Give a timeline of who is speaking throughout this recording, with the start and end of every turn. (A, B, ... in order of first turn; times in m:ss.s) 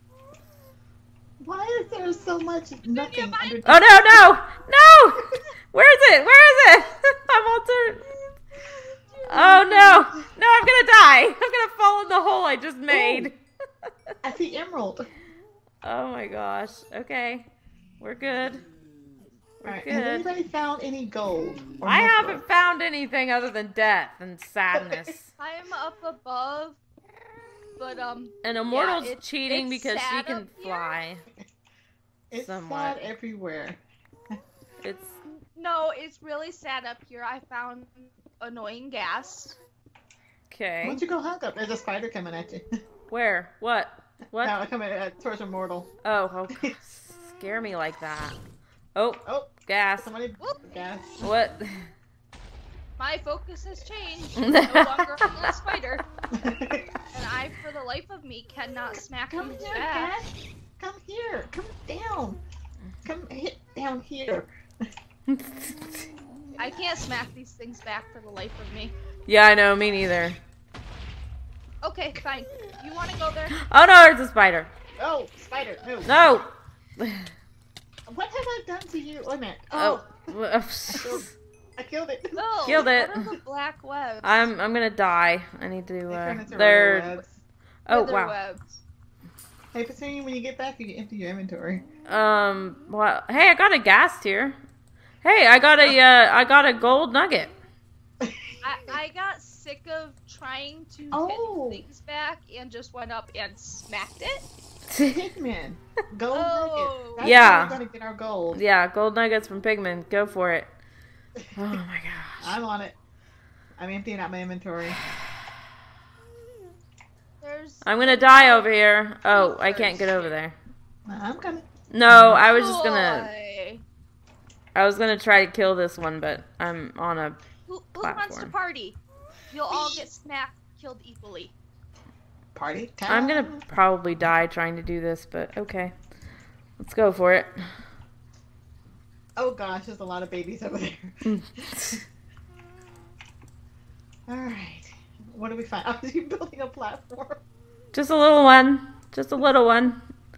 0:01.4-0:04.4 A
0:02.9-0:03.8 B
0:03.6-0:08.1 C
0:08.7-0:10.1 B
0:09.3-0:13.4 C
0:12.9-0:13.3 A
0:14.2-0:15.1 A
0:15.8-0:17.5 C
0:18.0-0:18.6 C
0:19.6-0:20.3 C
0:19.6-0:22.4 A
0:21.8-0:25.3 C
0:24.7-0:25.1 A
0:25.4-0:26.8 B
0:27.8-0:31.0 B
0:28.4-0:31.2 C
0:32.3-0:33.8 A
0:32.4-0:33.1 C
0:34.8-0:35.2 C
0:35.5-0:39.6 B
0:40.5-0:41.0 C
0:40.8-0:42.7 A
0:43.1-0:44.6 C
0:44.4-0:45.9 A
0:46.0-0:48.4 C
0:49.0-0:50.1 C
0:49.2-0:51.3 A
0:50.4-0:50.7 B
0:51.2-0:51.9 C
0:53.0-0:56.0 B
0:54.4-0:55.5 C
0:56.3-0:56.9 A
0:57.1-1:00.2 B
0:59.3-1:00.3 A
1:00.8-1:02.4 A
1:03.0-1:04.5 A
1:05.3-1:06.0 C
1:06.6-1:08.9 B
1:09.3-1:10.4 C
1:11.8-1:13.6 B
1:13.6-1:14.7 C
1:15.0-1:16.2 A
1:16.1-1:17.3 C
1:18.1-1:20.3 A
1:19.7-1:21.3 C
1:20.9-1:21.2 A
1:21.8-1:22.9 A
1:22.4-1:24.5 B
1:22.7-1:23.3 C
1:24.2-1:27.2 C
1:26.1-1:27.4 A
1:27.9-1:28.4 C
1:27.9-1:28.8 B
1:29.7-1:31.8 A
1:32.1-1:34.6 C
1:35.2-1:37.5 C
1:38.2-1:38.9 A
1:38.6-1:44.5 B
1:41.1-1:41.8 A
1:44.9-1:45.2 C
1:45.0-1:48.6 A
1:46.3-1:47.2 B
1:47.2-1:47.8 C
1:48.5-1:50.7 C
1:51.6-1:52.6 C
1:52.4-1:53.0 A
1:53.8-1:55.0 A
1:57.4-1:58.7 B
1:57.8-2:00.6 C
1:59.2-2:00.3 B
2:01.1-2:02.4 A
2:01.9-2:03.3 C
2:02.4-2:03.8 B
2:04.8-2:07.4 C
2:07.7-2:09.0 B
2:08.0-2:08.5 C
2:09.5-2:11.5 B
2:09.8-2:10.0 A
2:12.6-2:13.6 A
2:13.1-2:15.9 C
2:16.8-2:17.6 C
2:19.4-2:22.0 A
2:21.2-2:22.0 C
2:24.3-2:27.4 A
2:27.9-2:30.0 C